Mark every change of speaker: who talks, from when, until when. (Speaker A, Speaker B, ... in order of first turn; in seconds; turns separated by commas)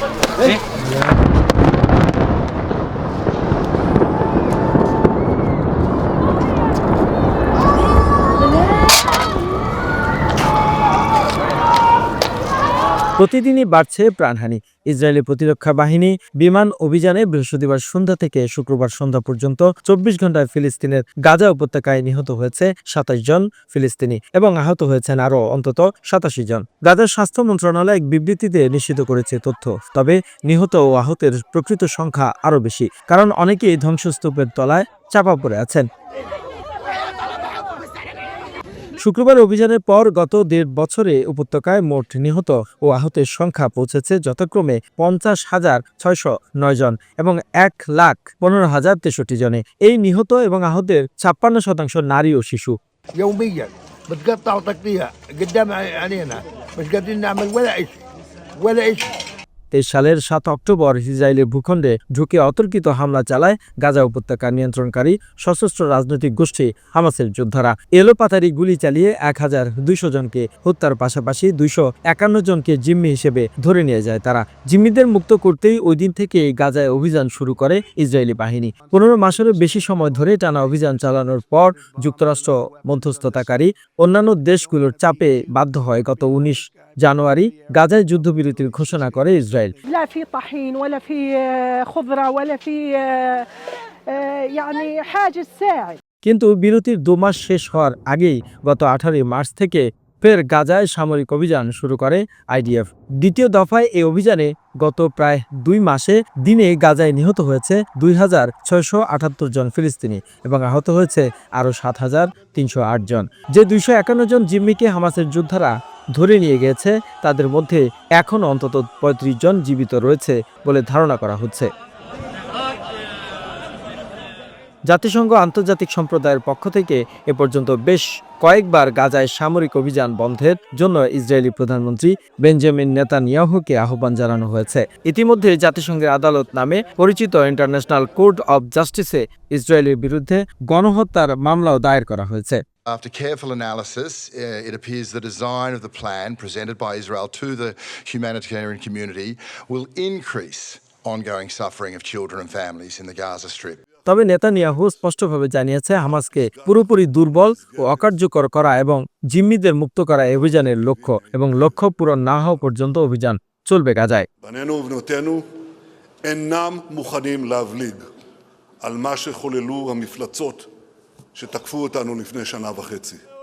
Speaker A: 13.2-35.9, Speaker A: 39.0-52.8, Speaker B: 53.2-57.9, Speaker B: 58.6-59.1, Speaker A: 59.7-89.7, Speaker C: 89.8-96.0, Speaker A: 96.2-121.7, Speaker A: 124.9-142.6, Speaker D: 142.9-153.8, Speaker A: 154.1-164.3, Speaker E: 154.6-155.1, Speaker E: 156.0-158.1, Speaker E: 160.5-161.8, Speaker E: 164.4-165.4, Speaker E: 166.2-168.1, Speaker E: 168.8-170.7, Speaker E: 171.3-173.2